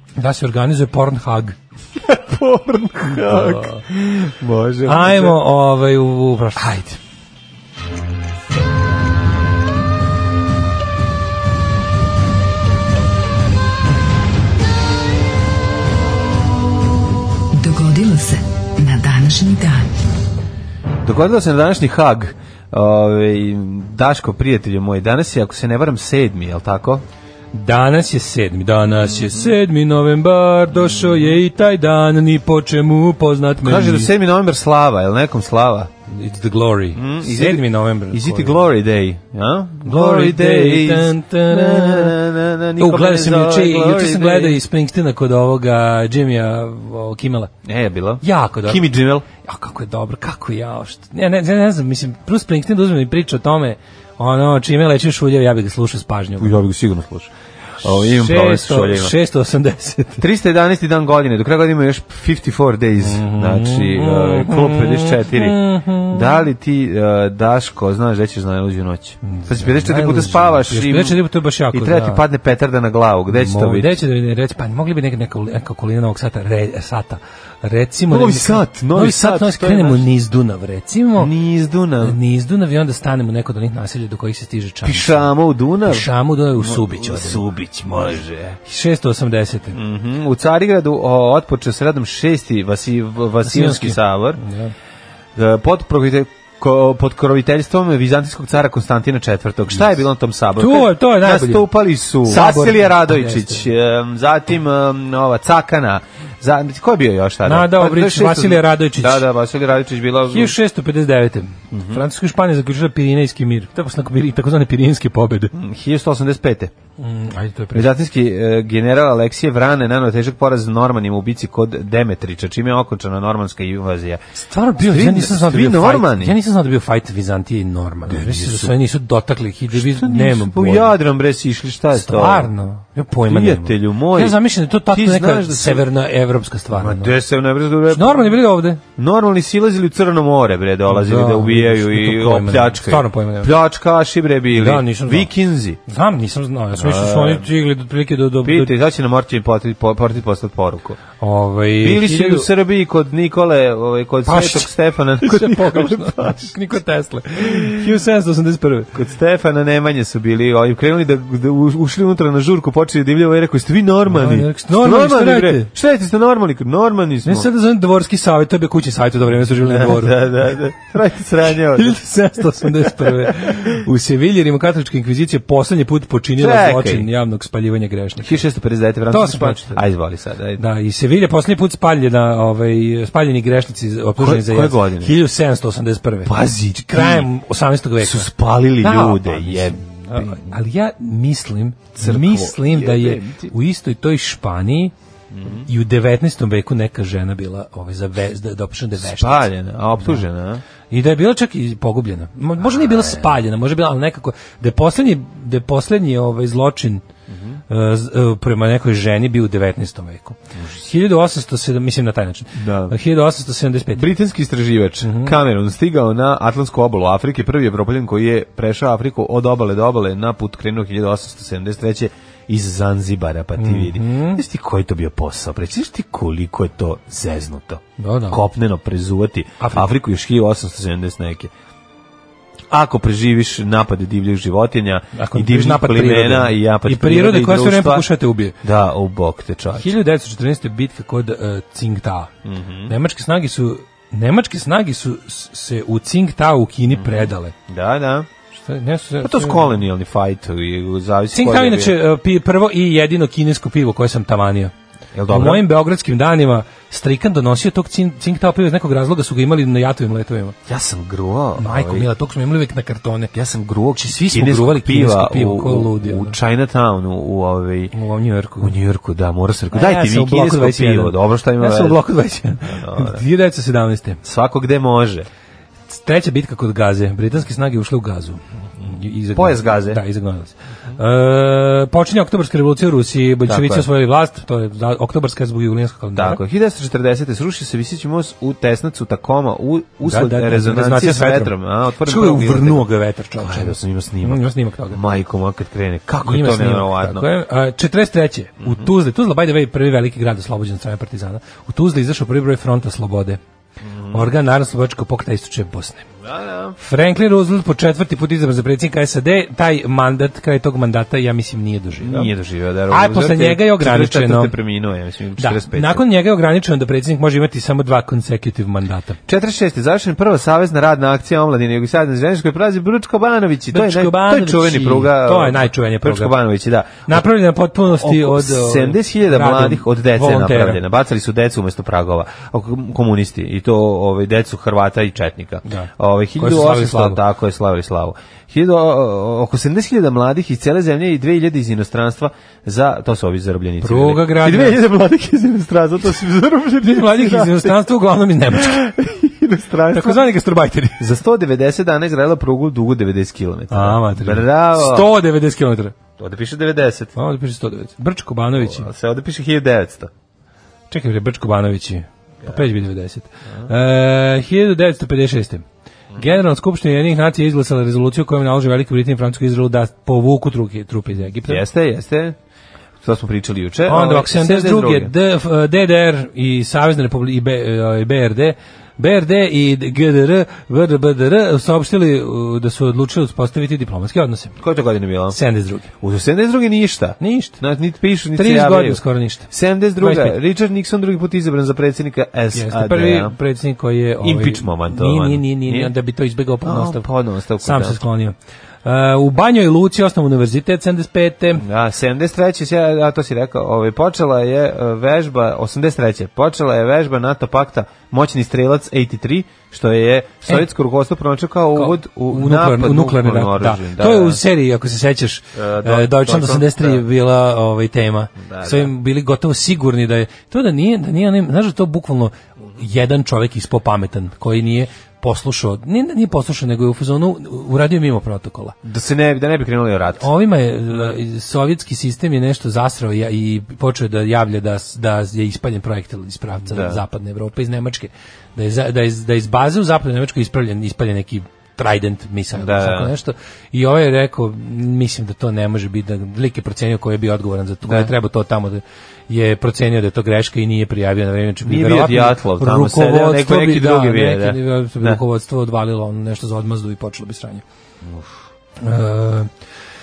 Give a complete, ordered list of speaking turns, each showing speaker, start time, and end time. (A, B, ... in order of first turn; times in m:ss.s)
0:00.2-0:01.6 A
0:02.0-0:05.4 B
0:03.1-0:03.8 A
0:04.8-0:07.0 A
0:17.6-0:19.8 C
0:21.0-0:27.0 B
0:27.5-0:34.1 A
0:29.0-0:29.5 B
0:33.6-0:35.9 B
0:36.1-0:38.6 A
0:36.9-0:44.6 B
0:39.8-0:42.1 A
0:42.8-0:47.5 A
0:47.6-0:49.2 B
0:48.2-0:56.5 A
0:56.4-0:57.3 B
0:57.8-0:59.1 B
0:57.8-1:00.2 A
1:00.2-1:11.2 B
1:03.0-1:06.4 A
1:09.2-1:12.2 A
1:11.7-1:14.0 B
1:13.3-1:21.3 A
1:18.1-1:20.1 B
1:21.2-1:22.2 B
1:22.0-1:25.3 A
1:24.8-1:28.6 B
1:25.8-1:29.8 A
1:29.7-1:34.4 B
1:33.4-1:34.7 A
1:35.4-1:50.5 B
1:40.6-1:41.7 A
1:42.2-1:43.6 A
1:47.4-1:49.2 A
1:50.3-1:55.5 A
1:51.7-1:52.0 B
1:55.5-1:56.7 B
1:57.0-1:57.9 A
1:57.7-2:04.2 B
2:04.4-2:11.0 A
2:04.8-2:06.4 B
2:08.0-2:08.7 B
2:09.7-2:12.5 B
2:11.9-2:17.1 A
2:13.2-2:15.8 B
2:16.7-2:18.4 B
2:17.9-2:18.8 A
2:19.0-2:25.8 B
2:20.9-2:23.5 A
2:24.5-2:25.3 A
2:25.9-2:28.7 A
2:26.8-2:27.5 B
2:28.4-2:31.0 B
2:31.2-2:32.5 A
2:31.8-2:36.5 B
2:34.2-2:38.9 A
2:37.4-2:37.9 B
2:38.9-2:47.5 B
2:44.1-2:45.7 A
2:47.2-2:50.3 A
2:49.5-2:52.0 B
2:51.7-2:58.4 A
2:52.6-2:53.7 B
2:56.4-2:57.1 B
2:58.2-3:00.6 B
2:59.1-2:59.8 A
3:00.6-3:14.9 A
3:04.2-3:05.1 B
3:06.2-3:07.3 B
3:08.0-3:10.5 B
3:12.0-3:13.5 B
3:15.3-3:15.7 B
3:15.5-3:19.5 A
3:19.0-3:20.6 B
3:20.9-3:27.0 A
3:22.6-3:23.3 B
3:27.3-3:27.6 B
3:27.7-3:34.1 A
3:32.5-3:33.0 B
3:33.9-3:51.5 B
3:35.0-3:35.4 A
3:43.6-3:44.4 A
3:48.0-3:48.4 A
3:49.6-3:49.9 A
3:52.7-3:58.1 B
3:55.1-3:58.6 A
3:58.6-3:59.9 B
3:59.7-4:02.3 A
4:02.4-4:02.9 B
4:02.9-4:07.5 A
4:06.9-4:08.3 B
4:08.6-4:09.7 A
4:09.2-4:12.0 B
4:11.3-4:14.7 A
4:15.1-4:15.6 B
4:15.3-4:20.6 A
4:20.6-4:22.1 B
4:21.6-4:23.3 A
4:23.3-4:27.9 B
4:24.0-4:26.4 A
4:27.9-4:28.7 A
4:28.6-4:32.0 B
4:29.7-4:34.2 A
4:32.6-4:33.2 B
4:34.2-4:35.3 B
4:35.9-4:46.4 A
4:39.3-4:40.0 B
4:43.4-4:43.9 B
4:46.1-4:52.8 B
4:50.0-4:51.5 A
4:52.0-4:55.0 A
4:53.4-4:57.2 B
4:56.2-5:03.4 A
4:58.6-4:58.9 B
5:03.8-5:04.3 B
5:04.1-5:06.1 A
5:06.2-5:06.8 B
5:06.8-5:12.3 A
5:12.0-5:16.0 B
5:12.9-5:14.5 A
5:15.4-5:19.2 A
5:19.3-5:27.3 B
5:23.7-5:26.4 A
5:27.1-5:30.8 A
5:27.8-5:47.8 B
5:35.6-5:37.2 A
5:43.8-5:44.8 A
5:46.8-5:48.8 A
5:48.5-5:50.2 B
5:49.9-5:51.0 A
5:51.0-5:55.1 B
5:53.7-5:55.9 A
5:56.2-5:57.1 B
5:57.2-5:58.9 A
5:58.5-6:00.1 B
6:00.9-6:05.6 A
6:06.2-6:11.6 A
6:11.4-6:12.4 B
6:13.0-6:15.1 B
6:13.9-6:24.6 A
6:24.6-6:25.4 B
6:25.3-6:25.9 A
6:26.0-6:33.4 B
6:27.2-6:27.6 A
6:28.3-6:30.4 A
6:32.5-6:37.1 A
6:34.2-6:35.9 B
6:36.6-6:38.0 B
6:37.6-6:41.6 A
6:41.6-6:54.4 B
6:51.7-7:08.8 A
6:55.5-6:57.0 B
6:58.4-6:58.9 B
7:08.8-7:10.3 B
7:10.2-7:37.6 A
7:10.9-7:11.2 B
7:16.6-7:17.0 B
7:22.5-7:23.1 B
7:27.8-7:28.1 B
7:31.6-7:35.2 B
7:38.0-7:38.3 B
7:38.8-7:39.5 A